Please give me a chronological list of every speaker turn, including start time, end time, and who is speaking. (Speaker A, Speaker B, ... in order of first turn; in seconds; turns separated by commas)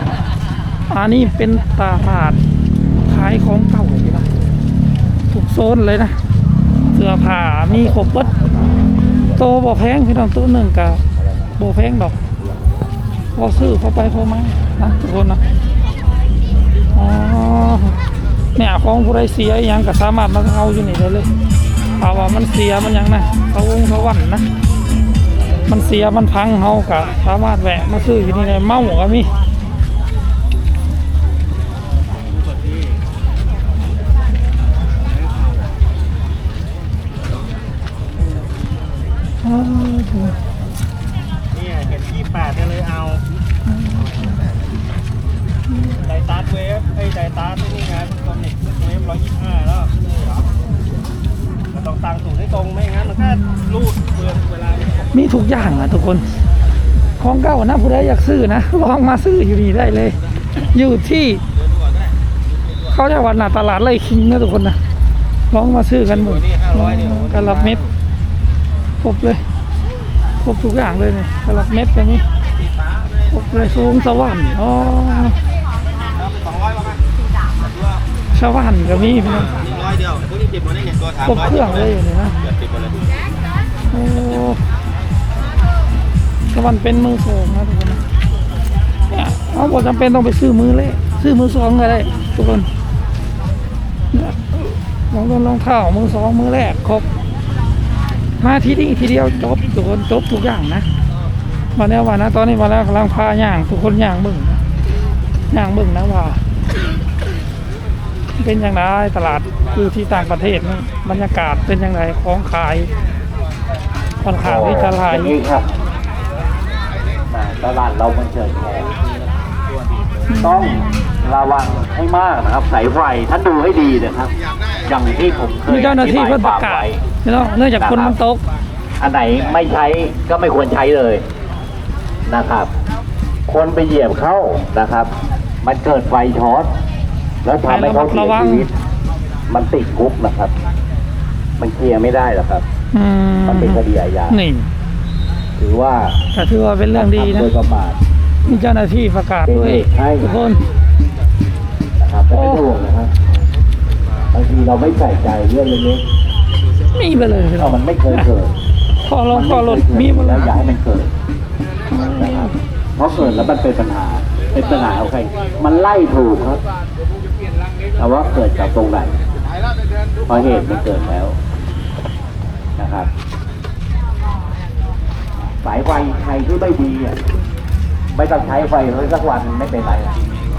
Speaker A: 0.9-2.4, Speaker A: 3.0-4.3, Speaker A: 5.3-6.2, Speaker A: 6.9-8.4, Speaker A: 9.3-11.0, Speaker A: 11.6-12.2, Speaker A: 13.3-15.4, Speaker A: 16.9-18.0, Speaker A: 18.5-21.3, Speaker A: 22.0-24.4, Speaker A: 25.6-29.3, Speaker A: 39.4-40.4, Speaker B: 41.8-42.8, Speaker A: 43.7-44.4, Speaker A: 45.7-46.0, Speaker B: 46.3-48.4, Speaker B: 49.3-49.9, Speaker B: 52.2-52.8, Speaker A: 53.1-53.9, Speaker B: 54.2-54.9, Speaker A: 55.1-56.2, Speaker A: 57.2-61.4, Speaker A: 62.9-64.8, Speaker A: 65.5-67.8, Speaker A: 69.0-69.4, Speaker A: 70.4-72.2, Speaker A: 73.3-75.4, Speaker A: 78.3-79.6, Speaker A: 81.2-82.3, Speaker A: 83.9-84.6, Speaker A: 86.5-88.0, Speaker A: 89.1-92.7, Speaker A: 94.1-97.0, Speaker A: 98.4-100.9, Speaker A: 101.8-104.6, Speaker A: 105.5-106.4, Speaker A: 108.4-112.9, Speaker A: 114.2-115.3, Speaker C: 114.4-115.7, Speaker C: 117.3-119.0, Speaker A: 120.3-121.1, Speaker C: 120.4-127.0, Speaker A: 125.7-128.4, Speaker C: 127.8-128.1, Speaker C: 129.0-131.2, Speaker C: 132.2-132.7, Speaker C: 133.5-136.7, Speaker C: 137.4-138.8, Speaker A: 137.6-138.7, Speaker C: 139.5-140.5, Speaker C: 141.6-142.7, Speaker A: 142.9-144.7, Speaker C: 143.4-144.4, Speaker C: 145.6-146.2, Speaker A: 146.3-147.5, Speaker C: 146.9-148.0, Speaker A: 148.4-150.6, Speaker C: 149.5-150.3, Speaker C: 152.0-153.1, Speaker A: 152.3-152.6, Speaker C: 154.3-156.0, Speaker A: 156.9-158.3, Speaker C: 157.6-158.5, Speaker A: 159.0-160.6, Speaker C: 159.3-161.1, Speaker A: 161.9-162.6, Speaker C: 162.0-166.6, Speaker A: 163.1-163.5, Speaker C: 167.9-169.2, Speaker C: 170.2-171.4, Speaker C: 172.8-173.1, Speaker C: 175.5-177.2, Speaker C: 178.1-180.2